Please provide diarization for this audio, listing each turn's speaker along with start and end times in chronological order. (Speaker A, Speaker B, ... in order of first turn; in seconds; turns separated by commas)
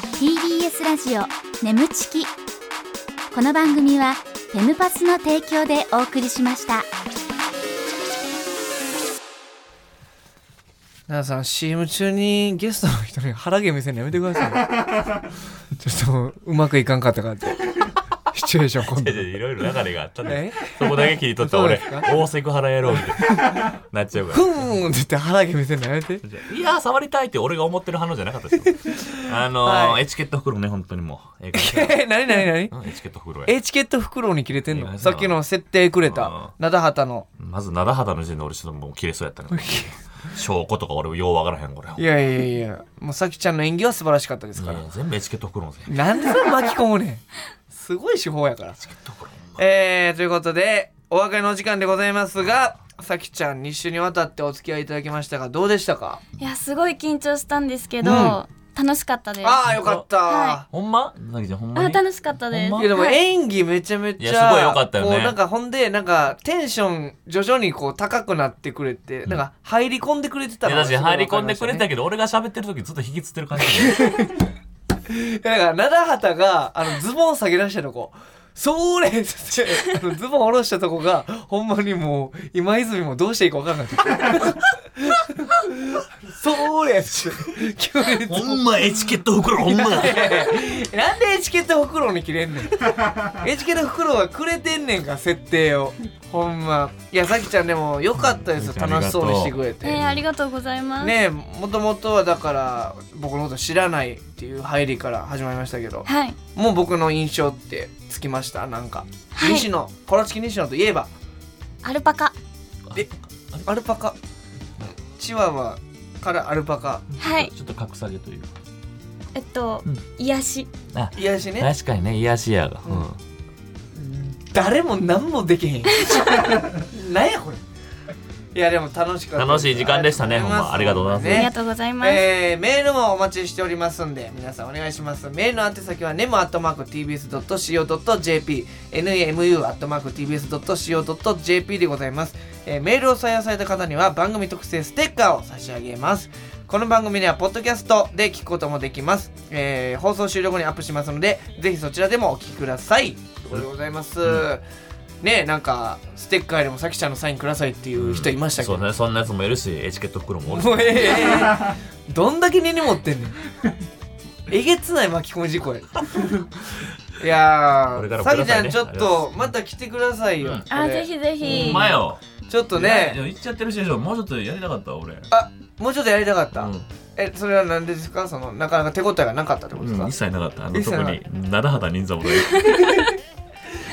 Speaker A: 0.2-2.3, Speaker A: 3.3-6.9, Speaker B: 11.1-14.7, Speaker B: 15.8-19.3, Speaker C: 18.8-24.5, Speaker B: 20.2-22.2, Speaker B: 23.2-23.6, Speaker B: 24.3-26.2, Speaker C: 26.2-33.5, Speaker B: 28.8-30.0, Speaker B: 31.5-32.7, Speaker B: 33.5-37.3, Speaker C: 34.7-35.4, Speaker C: 36.0-36.5, Speaker C: 37.4-42.0, Speaker B: 39.5-39.9, Speaker B: 42.0-44.8, Speaker C: 44.5-46.0, Speaker B: 45.9-48.9, Speaker C: 48.8-49.6, Speaker B: 49.6-56.2, Speaker D: 56.4-59.6, Speaker B: 58.0-58.4, Speaker B: 59.4-60.6, Speaker C: 59.6-60.0, Speaker D: 60.2-60.6, Speaker C: 60.7-63.0, Speaker D: 61.7-63.2, Speaker B: 62.8-71.8, Speaker C: 64.2-65.4, Speaker C: 70.6-74.2, Speaker B: 73.7-74.4, Speaker B: 75.1-88.8, Speaker C: 88.2-90.5, Speaker B: 89.6-100.0, Speaker C: 98.2-100.2, Speaker D: 99.8-101.2, Speaker B: 101.0-111.1, Speaker D: 106.1-106.4, Speaker D: 109.3-109.7, Speaker D: 111.8-112.3, Speaker C: 112.8-113.7, Speaker B: 113.7-114.2, Speaker B: 115.1-117.0, Speaker D: 117.2-117.5, Speaker C: 117.2-118.6, Speaker D: 119.3-120.7, Speaker C: 120.9-123.2, Speaker B: 121.1-121.7, Speaker B: 123.9-127.6, Speaker B: 128.5-154.6, Speaker C: 129.3-131.5, Speaker D: 131.3-132.2, Speaker B: 155.2-158.8, Speaker C: 157.9-161.4, Speaker B: 160.5-163.3, Speaker B: 164.5-166.5, Speaker B: 167.2-171.9, Speaker C: 167.9-169.3, Speaker D: 170.7-172.0, Speaker C: 171.4-172.2, Speaker B: 172.5-173.2, Speaker C: 172.7-175.3, Speaker B: 175.3-180.1, Speaker C: 176.6-176.9, Speaker C: 179.8-182.9, Speaker B: 180.7-181.2, Speaker D: 182.4-183.1